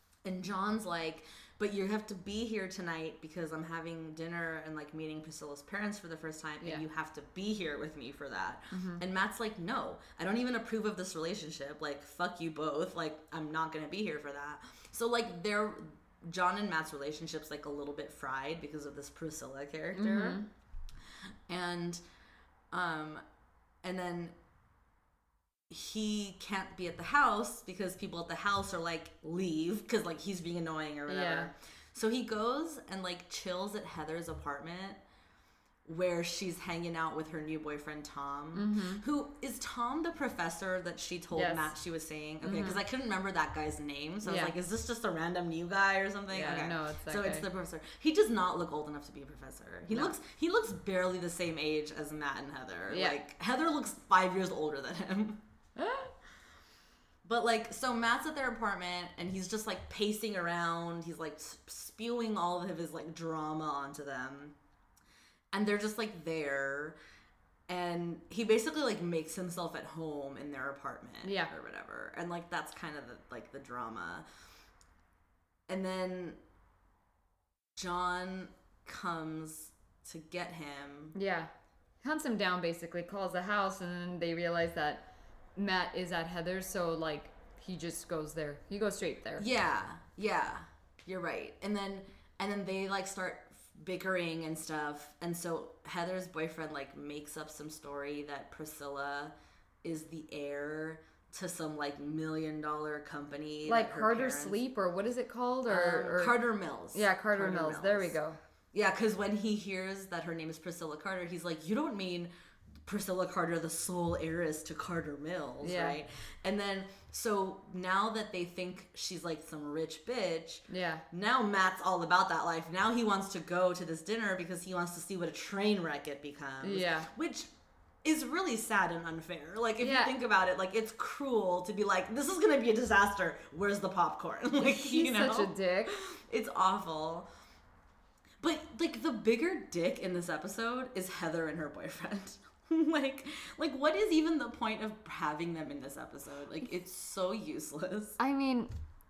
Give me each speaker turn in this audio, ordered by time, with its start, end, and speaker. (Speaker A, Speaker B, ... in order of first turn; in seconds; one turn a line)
Speaker A: 0.2-20.4
Speaker B: 8.7-9.0
Speaker B: 19.9-20.5
Speaker A: 21.5-22.0
Speaker A: 22.7-23.2
Speaker A: 23.8-24.3
Speaker A: 25.7-35.0
Speaker B: 31.1-31.5
Speaker A: 35.8-55.4
Speaker B: 38.5-39.0
Speaker B: 41.3-41.7
Speaker B: 42.4-42.8
Speaker B: 44.2-44.5
Speaker B: 46.3-47.5
Speaker B: 49.9-50.1
Speaker B: 52.9-53.2
Speaker B: 55.8-56.1
Speaker A: 57.2-64.5
Speaker A: 65.5-67.0
Speaker A: 67.7-74.2
Speaker B: 71.2-71.5
Speaker A: 75.7-76.4
Speaker A: 77.8-81.1
Speaker B: 81.1-81.5
Speaker B: 82.0-89.4
Speaker A: 89.4-104.6
Speaker B: 103.7-106.4
Speaker A: 105.7-108.2
Speaker B: 106.9-108.4
Speaker A: 108.7-112.3
Speaker A: 112.8-127.5
Speaker B: 115.6-116.0
Speaker B: 120.7-121.0
Speaker B: 126.6-127.1
Speaker A: 128.0-137.3
Speaker B: 129.8-130.1
Speaker B: 134.6-135.9
Speaker A: 138.4-148.2
Speaker B: 148.2-148.7